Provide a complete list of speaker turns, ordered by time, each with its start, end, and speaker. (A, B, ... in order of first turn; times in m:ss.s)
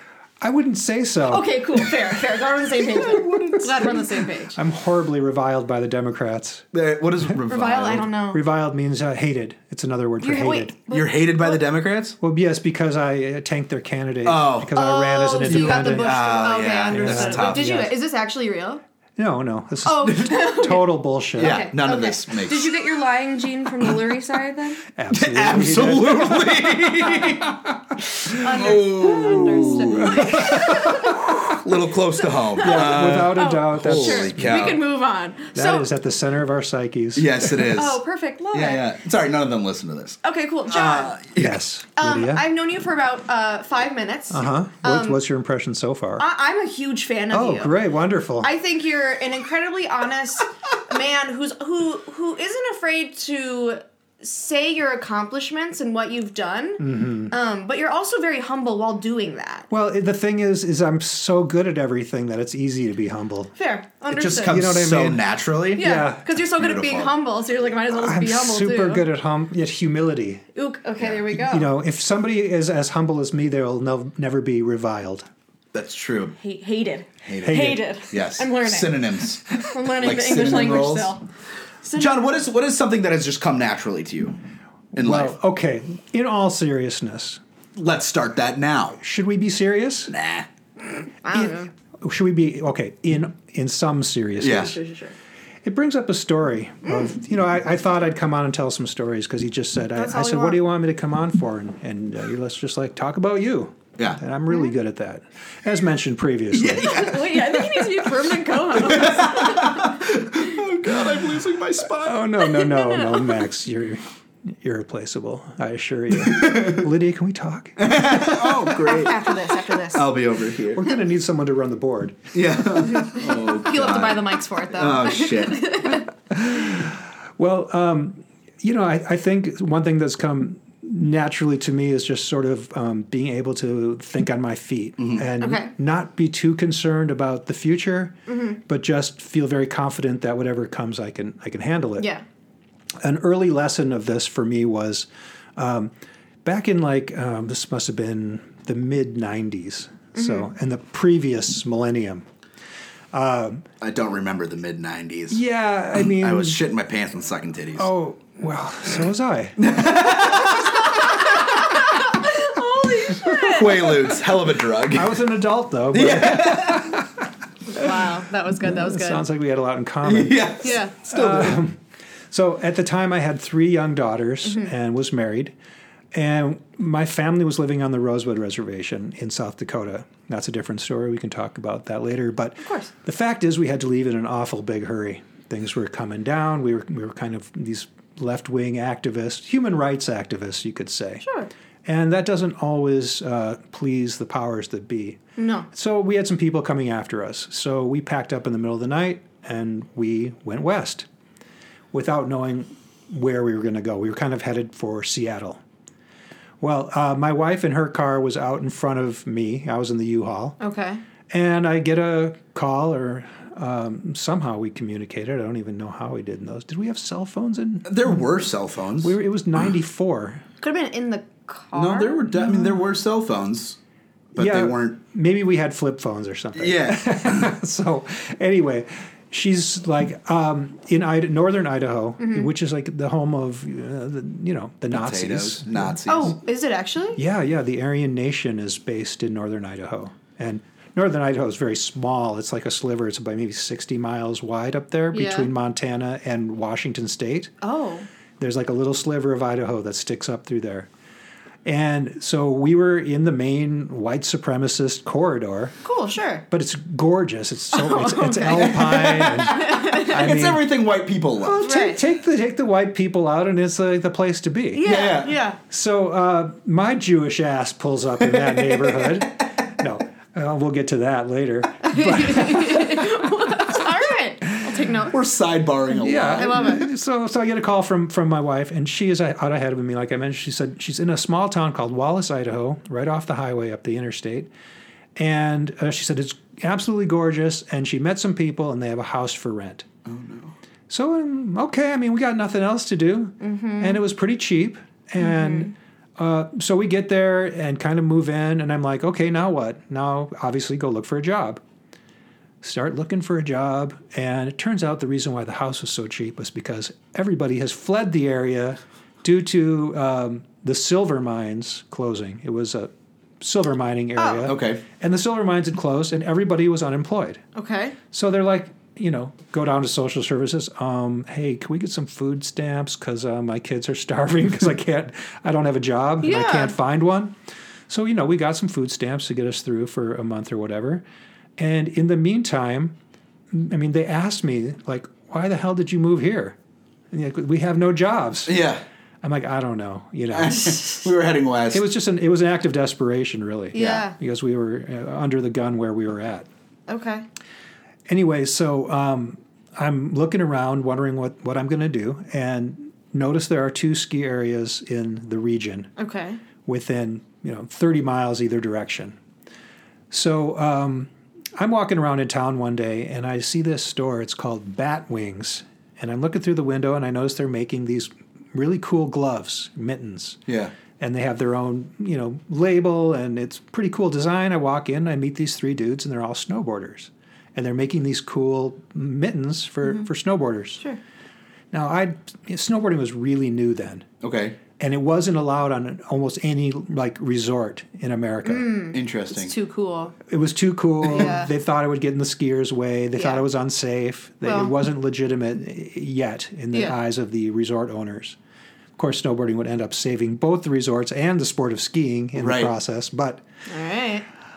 0:00.4-0:01.5 A
0:01.3-0:04.6 B
0:02.8-0:04.2 C
0:04.5-0:06.6 A
0:06.7-0:08.1 C
0:07.5-0:08.4 B
0:08.3-0:10.7 A
0:10.2-0:11.6 B
0:10.9-0:12.2 C
0:12.2-0:16.2 A
0:14.2-0:14.7 C
0:14.8-0:18.8 B
0:15.4-0:17.9 C
0:16.9-0:17.9 A
0:19.2-0:21.7 A
0:19.8-0:24.8 B
0:20.1-0:20.3 C
0:21.4-0:22.7 C
0:25.0-0:27.7 A
0:25.1-0:27.6 C
0:28.2-0:34.8 C
0:28.3-0:31.2 B
0:29.1-0:31.6 A
0:32.2-0:35.9 B
0:32.6-0:34.8 A
0:35.6-0:37.7 A
0:37.2-0:38.0 C
0:37.7-0:38.9 B
0:38.5-0:41.6 C
0:40.2-0:41.2 B
0:41.4-0:42.4 A
0:42.0-0:45.2 B
0:44.3-0:46.2 A
0:46.2-0:47.7 B
0:47.3-0:48.5 A
0:48.4-0:59.7 B
0:56.8-0:57.3 A
0:59.7-1:03.5 A
1:03.6-1:04.7 B
1:04.1-1:07.2 C
1:04.4-1:05.2 A
1:05.8-1:09.0 B
1:05.8-1:06.3 A
1:07.9-1:10.4 A
1:10.6-1:11.7 B
1:11.4-1:15.3 A
1:15.7-1:16.4 C
1:16.4-1:19.0 B
1:17.2-1:21.1 C
1:17.4-1:17.8 A
1:19.6-1:21.2 B
1:21.8-1:22.2 B
1:22.0-1:24.4 C
1:25.0-1:25.4 C
1:25.0-1:27.4 A
1:27.8-1:29.0 C
1:29.0-1:30.2 A
1:30.1-1:30.5 C
1:31.2-1:31.7 B
1:31.3-1:34.8 A
1:34.4-1:34.8 C
1:34.5-1:35.2 B
1:35.6-1:47.2 A
1:40.0-1:40.6 B
1:46.5-1:47.7 C
1:46.8-1:50.6 B
1:48.8-1:52.2 C
1:52.0-1:58.7 A
1:52.4-1:53.4 B
1:56.3-1:56.8 C
1:57.8-2:00.9 C
1:58.8-2:00.1 B
2:00.7-2:02.3 A
2:02.3-2:05.7 C
2:02.9-2:06.1 B
2:06.3-2:18.2 A
2:15.0-2:15.3 C
2:15.4-2:15.7 B
2:18.3-2:18.6 B
2:18.7-2:22.1 A
2:22.0-2:22.2 B
2:23.0-2:25.9 A
2:26.4-2:32.3 A
2:30.2-2:30.5 B
2:33.1-2:33.7 A
2:33.8-2:35.4 C
2:35.3-2:36.6 A
2:36.0-2:37.9 C
2:37.8-2:39.8 A
2:39.6-2:41.2 C
2:40.3-2:44.2 B
2:43.1-2:45.2 C
2:44.9-2:47.3 A
2:45.9-2:47.0 C
2:47.7-2:49.2 B
2:48.6-2:55.5 A
2:50.0-2:51.6 C
2:50.6-2:51.0 B
2:56.1-3:11.2 A
3:02.6-3:02.9 B
3:11.2-3:11.5 B
3:11.8-3:15.2 A
3:15.4-3:15.7 B
3:15.7-3:21.1 A
3:21.9-3:25.6 A
3:26.6-3:30.6 A
3:30.6-3:31.0 B
3:31.3-3:38.4 A
3:37.8-3:39.2 C
3:39.0-3:40.4 A
3:40.6-3:42.5 B
3:41.8-3:43.8 C
3:44.3-3:45.0 C
3:44.4-3:56.3 A
3:46.6-3:47.5 C
3:52.2-3:52.5 B
3:54.9-3:56.4 C
3:56.1-3:57.2 B
3:57.2-4:07.5 A
4:05.1-4:05.5 B
4:07.6-4:08.1 B
4:08.4-4:10.9 A
4:11.6-4:15.8 A
4:15.8-4:16.4 B
4:16.5-4:20.6 A
4:17.7-4:18.9 B
4:18.5-4:21.6 C
4:19.5-4:20.2 B
4:21.4-4:24.9 A
4:21.6-4:22.0 B
4:24.7-4:25.6 B
4:24.8-4:25.4 C
4:25.7-4:33.3 A
4:28.2-4:29.5 C
4:31.8-4:35.2 B
4:35.1-4:36.7 C
4:36.0-4:44.5 A
4:36.3-4:36.9 B
4:45.2-4:49.9 A
4:50.0-4:50.5 C
4:50.9-5:01.6 A
4:53.4-4:54.0 B
4:55.2-4:55.7 B
5:02.6-5:12.9 A
5:13.4-5:17.4 A
5:14.2-5:14.5 B
5:14.4-5:14.8 C
5:17.6-5:18.0 B
5:18.1-5:27.4 A
5:26.2-5:26.8 B
5:27.9-5:31.0 A
5:31.6-5:33.0 A
5:33.5-5:36.6 A
5:37.1-5:38.6 A
5:38.5-5:38.8 C
5:39.2-5:41.0 A
5:40.3-5:41.8 C
5:41.7-5:46.5 A
5:43.7-5:44.2 B
5:43.8-5:44.0 C
5:46.9-5:47.2 B
5:48.1-5:55.9 A
5:56.0-5:56.4 B
5:56.6-5:59.2 A
6:00.1-6:10.4 A
6:10.5-6:10.7 C
6:11.0-6:20.8 A
6:21.7-6:24.1 A
6:24.2-6:24.6 C
6:24.8-6:28.7 A
6:28.4-6:30.2 B
6:28.9-6:29.5 C
6:30.3-6:38.4 A
6:31.1-6:31.5 B
6:33.2-6:33.4 B
6:34.4-6:34.7 B
6:39.0-6:43.4 A
6:42.4-6:42.7 C
6:43.7-6:44.2 B